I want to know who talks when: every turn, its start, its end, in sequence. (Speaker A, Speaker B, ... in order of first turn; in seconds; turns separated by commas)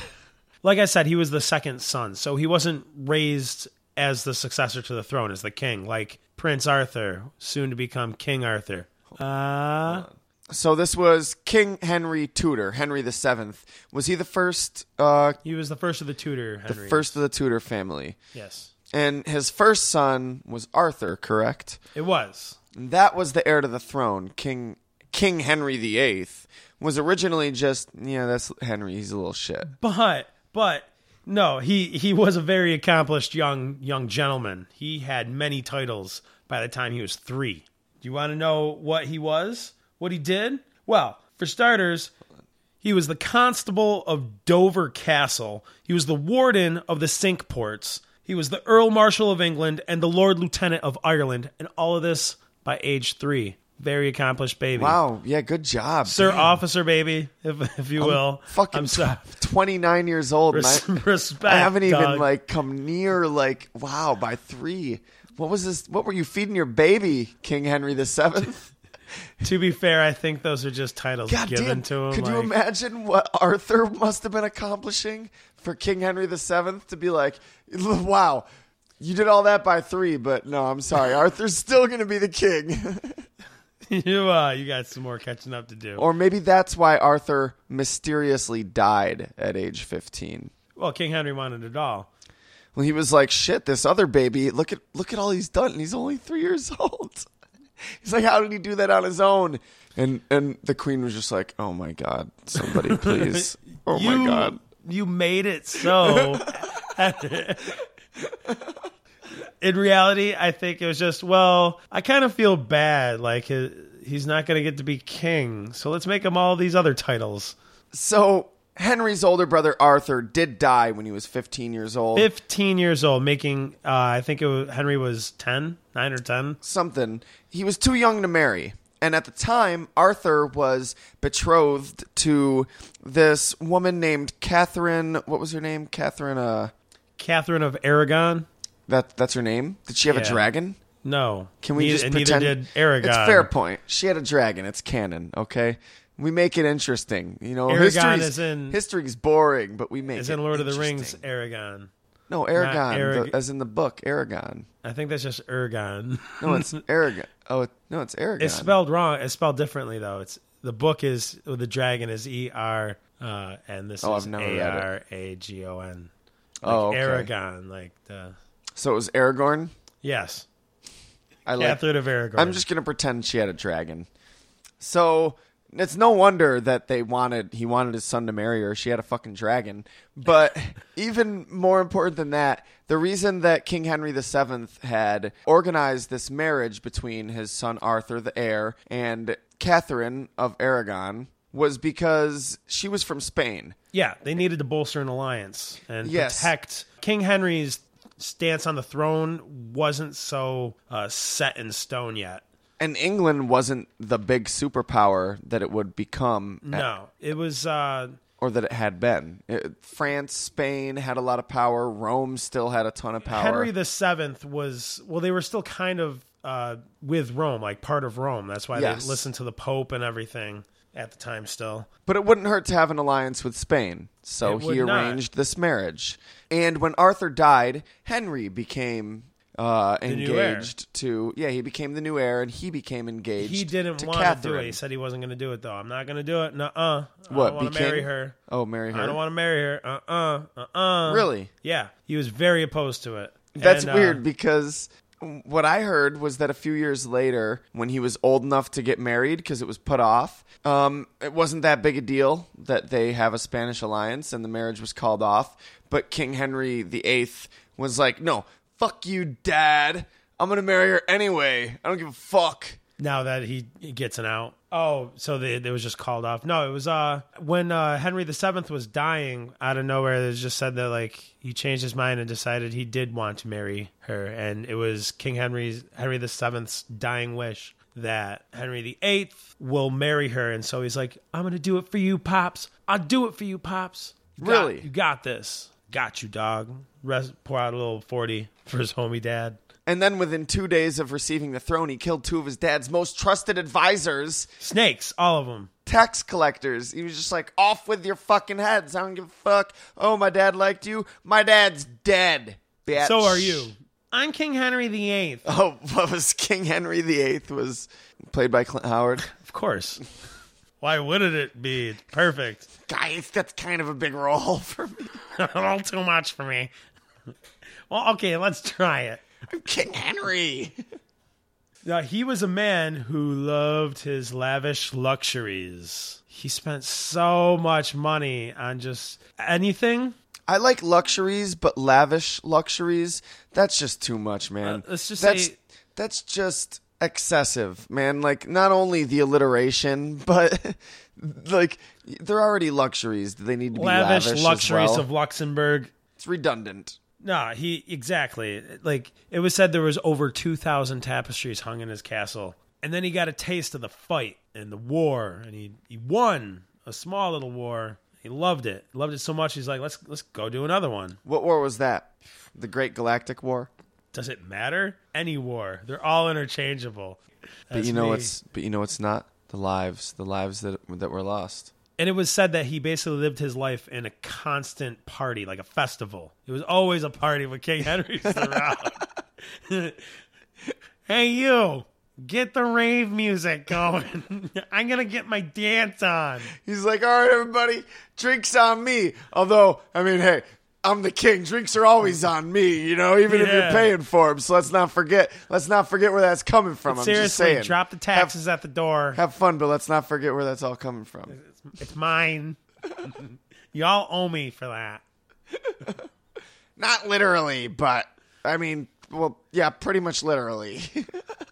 Speaker A: 0.6-10.1, Speaker B: 9.8-15.4, Speaker A: 15.4-17.1, Speaker B: 16.7-18.2, Speaker A: 18.3-18.7, Speaker B: 18.9-21.8, Speaker A: 21.9-22.6, Speaker B: 22.7-29.7, Speaker A: 29.7-42.1, Speaker A: 42.8-55.0, Speaker B: 54.8-56.6, Speaker A: 56.0-59.2, Speaker B: 58.0-60.9, Speaker A: 60.5-62.3, Speaker B: 61.4-68.7, Speaker A: 69.4-72.5, Speaker B: 71.3-78.4, Speaker B: 79.0-83.2, Speaker A: 83.9-86.0, Speaker B: 86.0-90.5, Speaker A: 90.8-92.1, Speaker B: 92.7-97.3, Speaker B: 97.9-104.6, Speaker A: 102.6-107.8, Speaker B: 106.0-106.5, Speaker B: 108.2-108.8, Speaker A: 109.6-117.5, Speaker B: 117.9-122.3, Speaker A: 122.1-126.6, Speaker B: 126.6-136.7, Speaker A: 137.2-138.5, Speaker B: 138.9-140.8, Speaker A: 140.1-140.4, Speaker A: 141.0-143.5, Speaker B: 141.6-151.2, Speaker A: 147.7-148.8, Speaker A: 150.1-151.9, Speaker B: 152.3-154.7, Speaker A: 152.5-153.3, Speaker A: 154.8-156.8, Speaker B: 156.4-158.7, Speaker A: 158.4-166.1, Speaker B: 164.0-164.9, Speaker B: 166.6-167.3, Speaker A: 166.7-168.3, Speaker B: 168.8-169.7, Speaker A: 170.0-170.5, Speaker B: 171.4-171.8, Speaker A: 171.6-172.6, Speaker B: 172.3-174.1, Speaker B: 174.8-193.8, Speaker A: 193.9-202.4, Speaker B: 196.0-196.5, Speaker B: 202.8-206.9, Speaker A: 206.6-208.2, Speaker B: 208.4-213.7, Speaker A: 213.2-221.9, Speaker B: 218.7-219.2, Speaker B: 222.1-234.8, Speaker A: 224.4-225.2, Speaker A: 230.0-230.7, Speaker A: 233.4-238.3, Speaker B: 237.3-239.2, Speaker A: 238.9-244.2, Speaker B: 241.1-241.5, Speaker B: 243.5-262.8, Speaker A: 263.0-289.6, Speaker B: 284.4-284.9, Speaker B: 289.9-294.5, Speaker A: 294.6-295.7, Speaker B: 295.9-303.7, Speaker A: 303.0-305.4, Speaker B: 305.4-309.3, Speaker A: 309.3-310.0, Speaker A: 310.8-312.7, Speaker B: 312.9-315.1, Speaker A: 315.3-316.7, Speaker A: 317.9-319.2, Speaker B: 319.5-320.8, Speaker A: 321.8-330.1, Speaker B: 330.5-345.1, Speaker A: 334.6-335.5, Speaker A: 343.7-345.9, Speaker B: 346.2-347.0, Speaker A: 347.2-361.2, Speaker B: 361.2-363.7, Speaker A: 364.1-368.3, Speaker B: 367.7-371.7, Speaker A: 372.0-379.1, Speaker B: 378.3-378.7, Speaker A: 379.6-380.1, Speaker A: 381.1-386.5, Speaker B: 386.5-398.3, Speaker A: 393.3-393.9, Speaker A: 396.9-399.2, Speaker B: 399.1-401.3, Speaker A: 401.3-405.0, Speaker B: 405.7-406.0, Speaker B: 406.8-411.1